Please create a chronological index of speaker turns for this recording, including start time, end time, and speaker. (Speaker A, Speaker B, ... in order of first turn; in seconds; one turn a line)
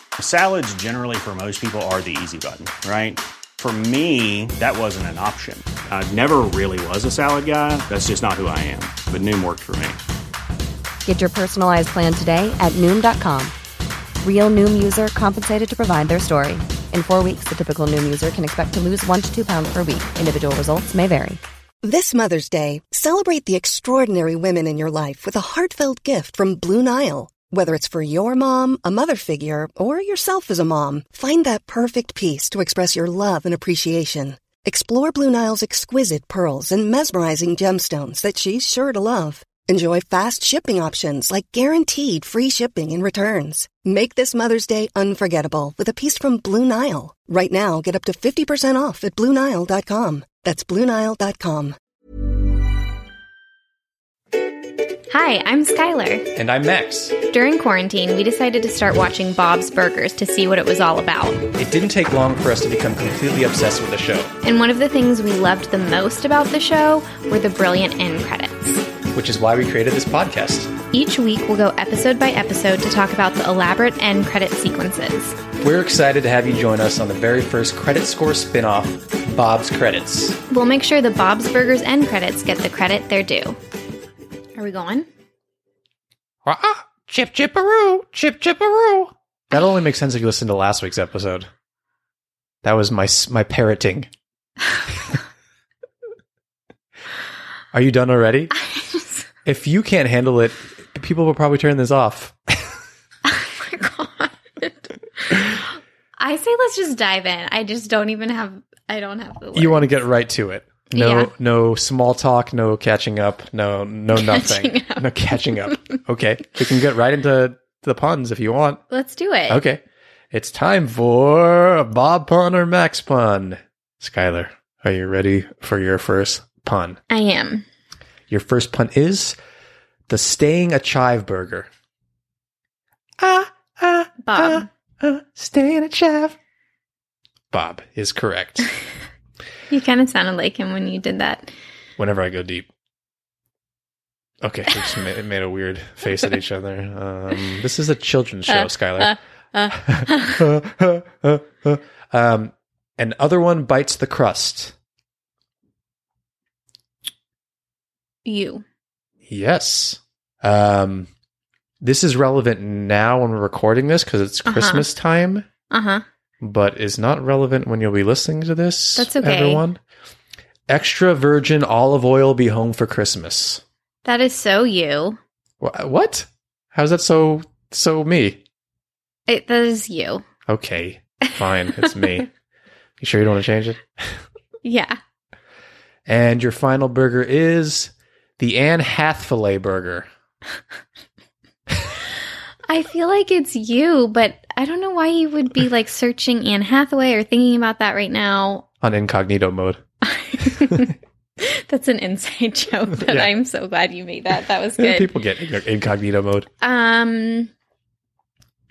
Speaker A: 0.2-10.0
Speaker B: 11.0-13.5
Speaker B: 14.2-21.4
Speaker C: 21.8-51.8
Speaker D: 55.1-56.2
Speaker E: 56.4-57.1
Speaker D: 57.3-61.4
Speaker E: 61.5-64.3
Speaker D: 64.4-68.8
Speaker E: 69.1-70.7
Speaker D: 70.9-75.4
Speaker E: 75.6-80.4
Speaker D: 80.5-83.6
Speaker D: 84.6-85.1
Speaker E: 86.4-91.5
Speaker E: 92.6-94.1
Speaker E: 97.7-98.5
Speaker D: 98.5-99.2
Speaker E: 99.4-102.3
Speaker D: 103.2-105.6
Speaker D: 106.2-109.9
Speaker E: 109.5-118.8
Speaker D: 110.9-111.3
Speaker D: 114.1-115.1
Speaker D: 115.6-116.0
Speaker D: 118.9-119.6
Speaker E: 119.5-119.8
Speaker E: 120.3-127.0
Speaker D: 127.1-127.6
Speaker E: 128.3-129.4
Speaker E: 130.1-131.7
Speaker E: 133.2-136.4
Speaker D: 134.2-134.7
Speaker E: 137.5-138.7
Speaker D: 139.7-141.5
Speaker E: 142.0-142.7
Speaker E: 144.4-149.2
Speaker D: 148.5-150.4
Speaker E: 149.7-154.7
Speaker D: 158.2-158.6
Speaker E: 159.3-161.1
Speaker E: 161.8-165.5
Speaker D: 164.4-164.9
Speaker D: 165.7-166.0
Speaker E: 166.4-169.8
Speaker D: 169.0-169.6
Speaker E: 170.7-173.6
Speaker D: 174.0-175.2
Speaker E: 175.6-178.4
Speaker D: 179.3-180.2
Speaker E: 180.5-182.3
Speaker E: 183.0-184.2
Speaker D: 184.6-185.0
Speaker E: 186.1-190.1
Speaker D: 192.7-198.7
Speaker E: 198.8-199.8
Speaker D: 200.0-205.1
Speaker E: 203.0-203.3
Speaker E: 204.8-206.5
Speaker D: 206.6-207.5